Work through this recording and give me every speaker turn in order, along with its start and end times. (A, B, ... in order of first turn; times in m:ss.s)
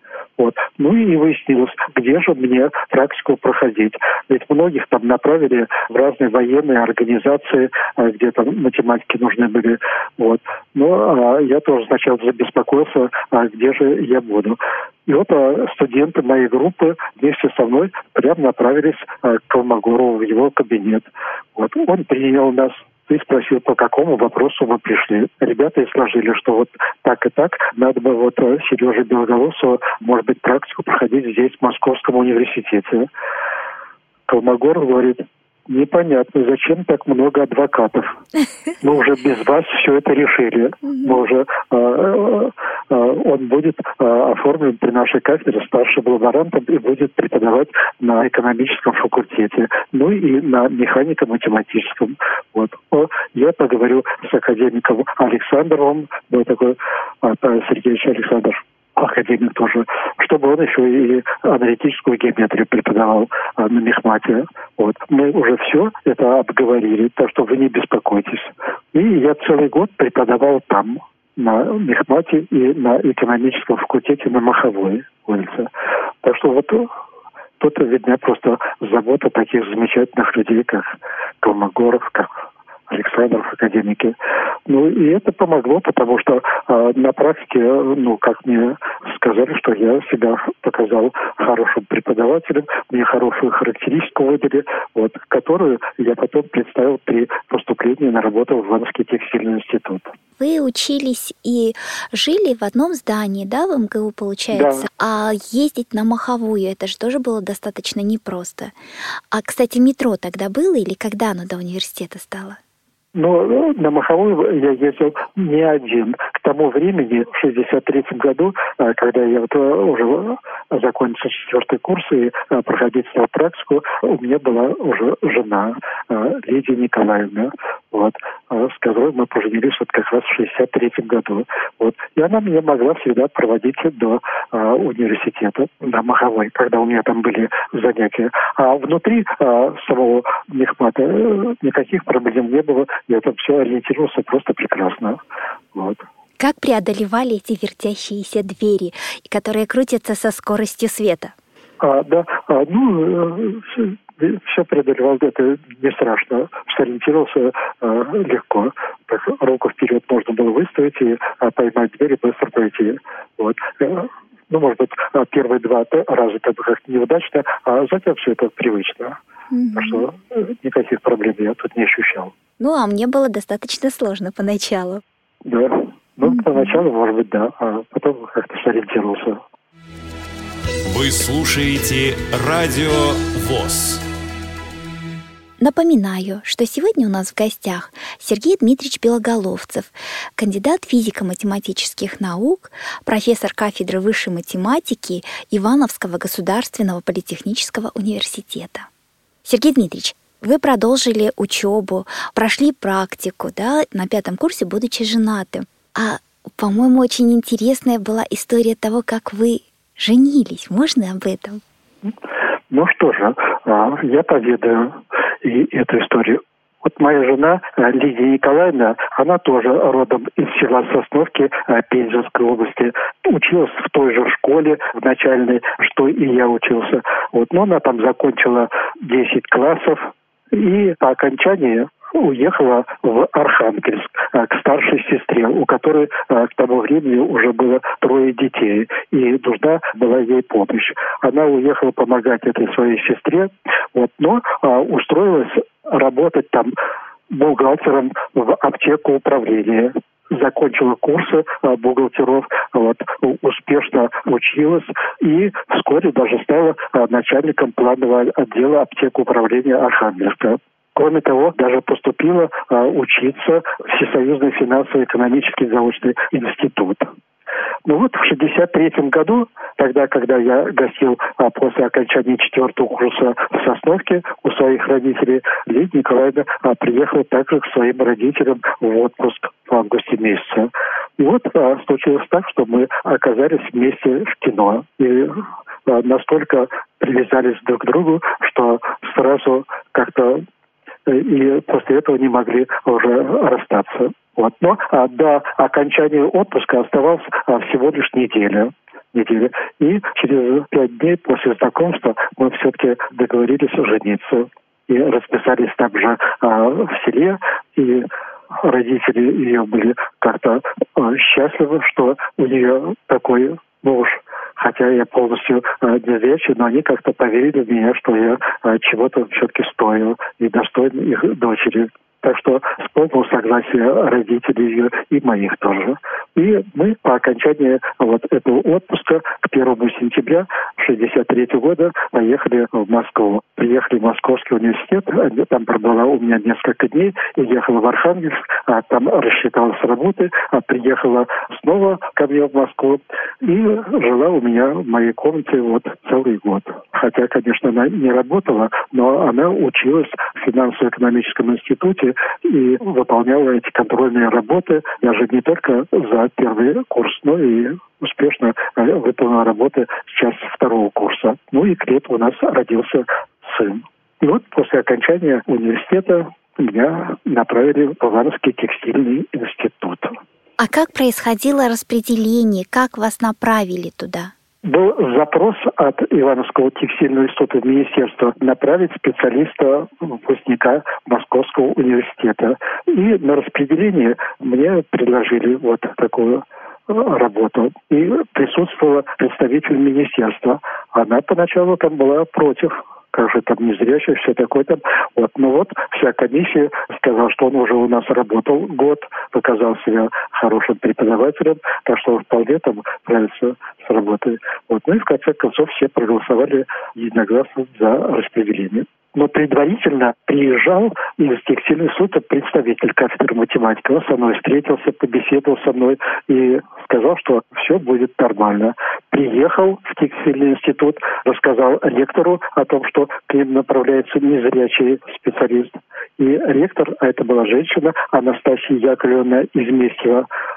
0:00.4-0:33.1 A
0:34.3-0:38.2 A
0:38.8-1:15.7 A
0:40.8-0:41.1 B
1:16.2-1:16.9 A
1:17.6-1:24.1 A
1:24.7-1:40.1 A
1:40.4-1:48.7 B
1:44.5-1:44.9 A
1:49.3-1:52.6 B
1:53.1-2:25.2 A
2:25.7-2:26.0 A
2:26.4-2:31.3 B
2:31.8-2:49.2 A
2:49.5-2:50.0 B
2:49.7-2:52.3 A
2:52.6-2:55.0 B
2:55.4-2:59.4 A
2:56.2-2:56.8 B
3:00.9-3:04.0 C
3:05.6-3:18.9 B
3:19.4-3:31.6 B
3:32.7-4:06.7 A
4:07.3-4:27.1 A
4:27.8-4:50.4 A
4:51.0-5:08.1 A
5:08.6-6:10.1 A
6:10.6-6:14.3 B
6:14.6-7:10.3 A